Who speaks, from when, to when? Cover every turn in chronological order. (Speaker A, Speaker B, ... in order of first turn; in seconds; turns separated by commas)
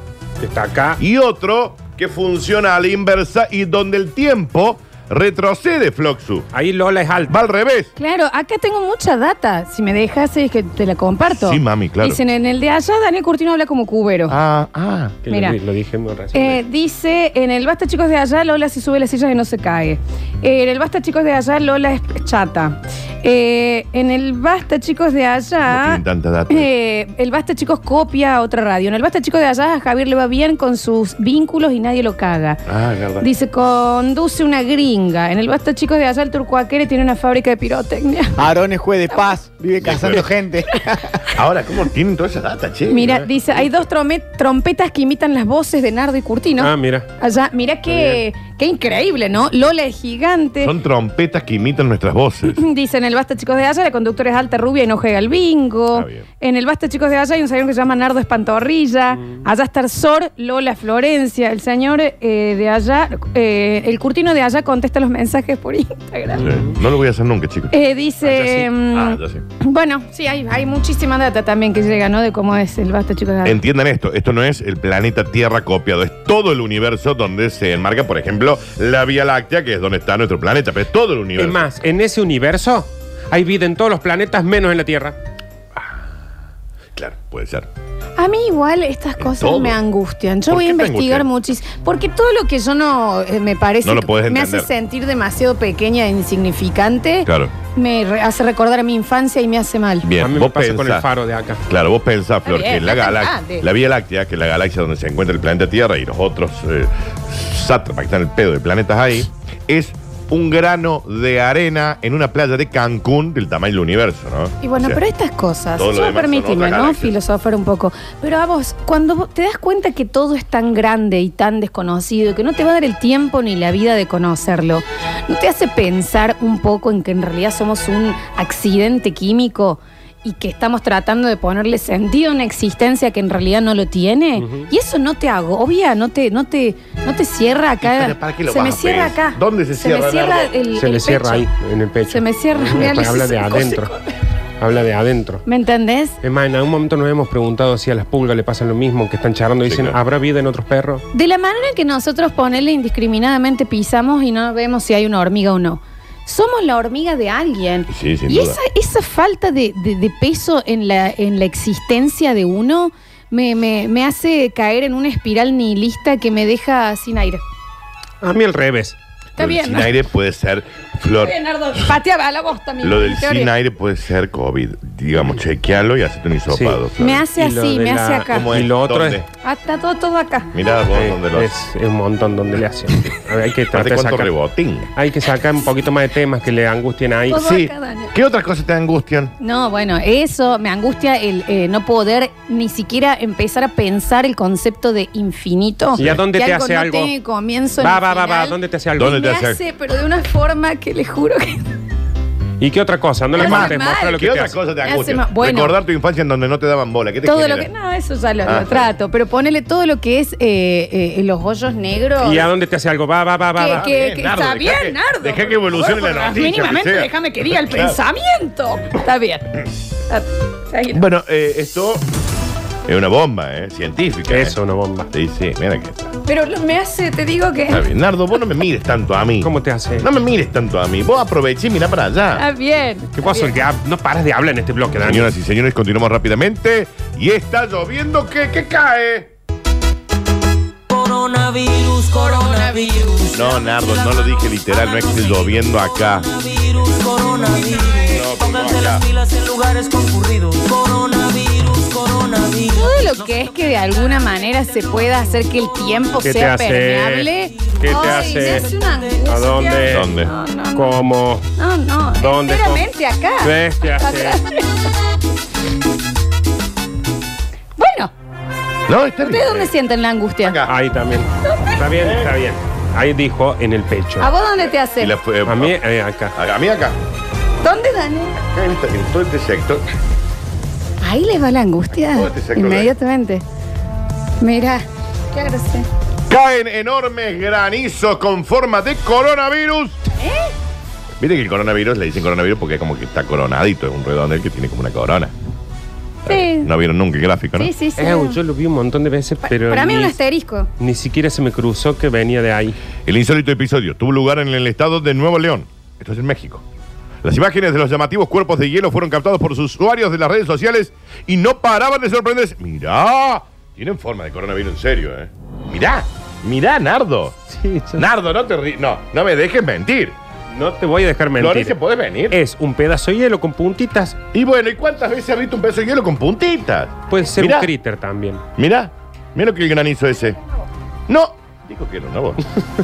Speaker A: 0.4-1.0, Speaker B: 1.0-6.5, Speaker A: 6.5-7.4, Speaker B: 7.3-7.9, Speaker C: 8.0-14.3, Speaker B: 11.3-12.2, Speaker B: 14.3-15.2, Speaker A: 15.2-16.6, Speaker C: 15.3-15.6, Speaker C: 16.3-32.6, Speaker B: 25.7-26.7, Speaker B: 32.6-33.3, Speaker C: 33.2-38.4, Speaker D: 38.4-41.2, Speaker C: 39.1-39.4, Speaker B: 39.8-40.3, Speaker B: 41.3-43.2, Speaker C: 42.9-50.7, Speaker A: 46.6-47.1, Speaker B: 50.6-52.6, Speaker C: 52.5-66.4, Speaker B: 55.9-56.2, Speaker A: 66.4-66.7, Speaker B: 66.4-67.7, Speaker C: 67.7-73.6, Speaker A: 68.2-68.7, Speaker B: 68.9-69.4, Speaker B: 73.4-81.6, Speaker A: 81.4-85.2, Speaker B: 85.8-86.1, Speaker B: 86.9-87.7, Speaker C: 88.2-100.1, Speaker B: 89.2-89.8, Speaker B: 90.5-91.3, Speaker B: 93.8-94.7, Speaker B: 97.2-97.5, Speaker B: 100.0-101.0, Speaker A: 100.2-101.6, Speaker B: 101.7-115.0, Speaker C: 102.4-103.6, Speaker C: 114.6-141.5, Speaker B: 115.8-117.2, Speaker A: 134.4-134.7, Speaker B: 137.8-140.5, Speaker A: 140.7-143.9, Speaker C: 142.1-144.1, Speaker A: 144.6-145.4, Speaker C: 145.4-146.2, Speaker A: 146.2-151.0, Speaker B: 149.6-150.0, Speaker C: 151.1-167.4, Speaker B: 157.9-158.6, Speaker A: 168.2-169.0, Speaker C: 169.4-169.9, Speaker B: 169.4-171.3, Speaker C: 171.2-173.5, Speaker B: 172.8-177.2, Speaker A: 176.5-179.2, Speaker C: 177.0-178.5, Speaker B: 178.3-179.3, Speaker C: 179.4-180.6, Speaker B: 180.5-181.6, Speaker A: 180.9-184.3, Speaker B: 183.7-184.9, Speaker A: 184.9-187.4, Speaker C: 187.3-188.1, Speaker B: 187.4-189.3, Speaker C: 189.4-201.6, Speaker A: 196.0-197.1, Speaker A: 197.8-199.2, Speaker B: 198.9-199.6, Speaker A: 202.6-204.6, Speaker C: 203.3-204.2, Speaker B: 203.4-207.7, Speaker C: 204.8-205.8, Speaker C: 207.2-212.4, Speaker B: 208.4-208.9, Speaker A: 212.2-213.8, Speaker C: 213.6-221.0, Speaker B: 213.7-218.0, Speaker B: 220.9-222.0, Speaker B: 222.8-224.6, Speaker A: 224.3-225.1, Speaker B: 225.1-226.1, Speaker C: 226.2-227.9, Speaker B: 227.7-232.4, Speaker A: 229.4-230.1, Speaker C: 232.3-233.5, Speaker A: 233.2-235.3, Speaker B: 235.0-239.3, Speaker E: 240.9-256.1, Speaker C: 242.2-243.1, Speaker B: 243.3-246.3, Speaker B: 248.1-249.0, Speaker C: 252.7-261.0, Speaker A: 256.2-258.7, Speaker E: 257.6-259.3, Speaker A: 259.3-260.1, Speaker B: 259.9-260.3, Speaker A: 260.7-261.4, Speaker C: 261.6-264.8, Speaker A: 262.2-262.9, Speaker A: 263.4-264.4, Speaker C: 267.8-268.1, Speaker B: 268.9-269.7, Speaker C: 269.2-270.6, Speaker B: 270.4-270.7, Speaker A: 270.6-274.3, Speaker C: 271.4-271.8, Speaker B: 272.0-272.3, Speaker C: 274.2-275.1, Speaker B: 274.6-275.8, Speaker A: 275.4-276.3, Speaker B: 276.3-277.0, Speaker C: 277.6-278.4, Speaker B: 278.4-279.8, Speaker C: 281.0-283.4, Speaker B: 281.9-282.9, Speaker C: 284.4-285.9, Speaker B: 286.3-290.0, Speaker C: 290.2-290.5, Speaker B: 291.2-295.3, Speaker B: 296.2-297.7, Speaker C: 296.2-296.7, Speaker C: 297.6-298.4, Speaker A: 298.0-300.2, Speaker C: 299.4-300.7, Speaker A: 300.8-302.8, Speaker B: 303.0-306.6, Speaker B: 307.2-317.4, Speaker A: 317.5-318.1, Speaker B: 317.9-320.2, Speaker A: 320.5-321.8, Speaker B: 321.4-322.4, Speaker A: 322.3-324.2, Speaker B: 324.3-327.7, Speaker A: 327.1-328.4, Speaker B: 328.6-330.4, Speaker B: 331.1-332.4